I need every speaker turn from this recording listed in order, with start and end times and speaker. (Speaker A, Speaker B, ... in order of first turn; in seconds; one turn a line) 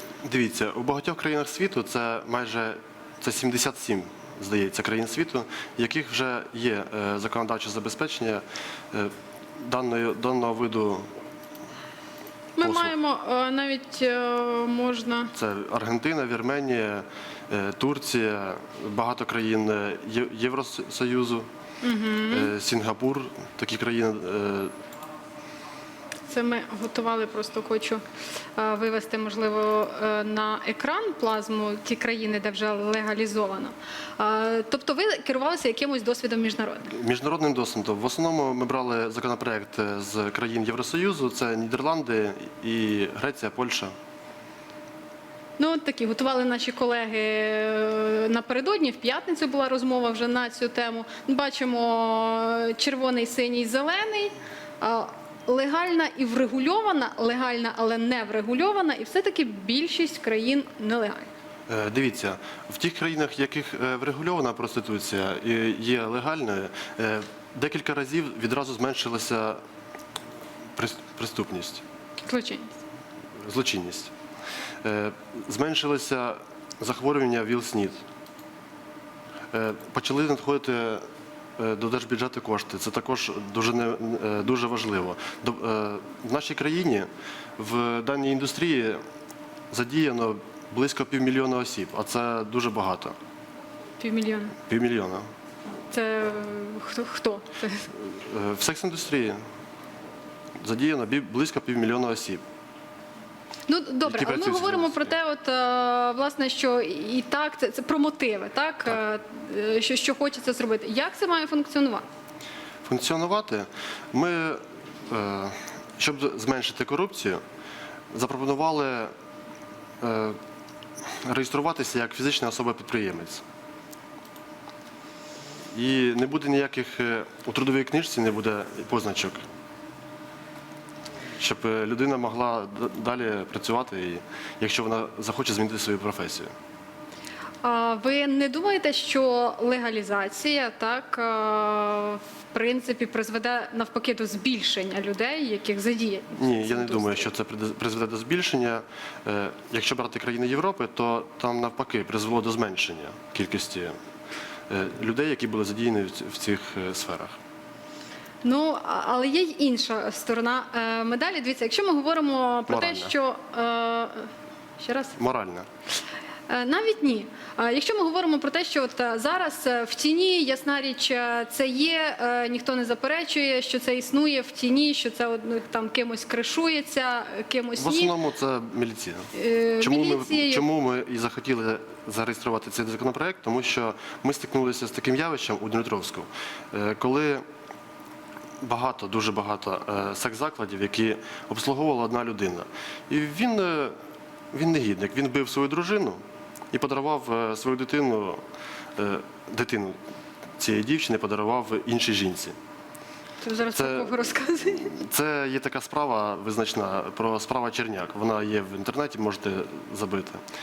Speaker A: 0.2-11.1
Speaker B: 12.6-15.3
Speaker A: 12.6-12.9
Speaker A: 15.3-21.5
Speaker B: 21.8-22.5
Speaker A: 22.3-24.7
Speaker B: 26.3-28.0
Speaker B: 28.6-36.9
Speaker A: 36.9-43.9
Speaker B: 45.6-61.3
Speaker A: 61.7-69.6
Speaker A: 70.8-71.8
Speaker B: 72.2-72.7
Speaker A: 73.4-74.1
Speaker A: 74.8-78.0
Speaker A: 79.5-81.0
Speaker A: 81.6-89.0
Speaker A: 89.7-93.1
Speaker B: 94.0-94.5
Speaker A: 94.7-95.3
Speaker B: 95.9-97.9
Speaker A: 97.9-99.4
Speaker A: 100.6-102.4
Speaker B: 103.7-112.0
Speaker A: 104.0-105.1
Speaker A: 112.8-117.4
Speaker A: 118.1-119.1
Speaker A: 120.0-120.4
Speaker A: 121.2-123.4
Speaker A: 125.7-129.4
Speaker A: 131.4-136.5
Speaker B: 137.6-147.3
Speaker A: 146.4-153.9
Speaker A: 154.7-157.4
Speaker B: 158.4-165.2
Speaker A: 162.7-163.1
Speaker A: 165.2-165.7
Speaker B: 166.5-178.1
Speaker A: 177.8-187.4
Speaker B: 179.3-180.6
Speaker A: 188.6-193.9
Speaker A: 194.5-196.2
Speaker A: 196.7-198.4
Speaker A: 199.0-200.0
Speaker A: 200.6-202.6
Speaker B: 203.4-204.9
Speaker A: 203.7-210.4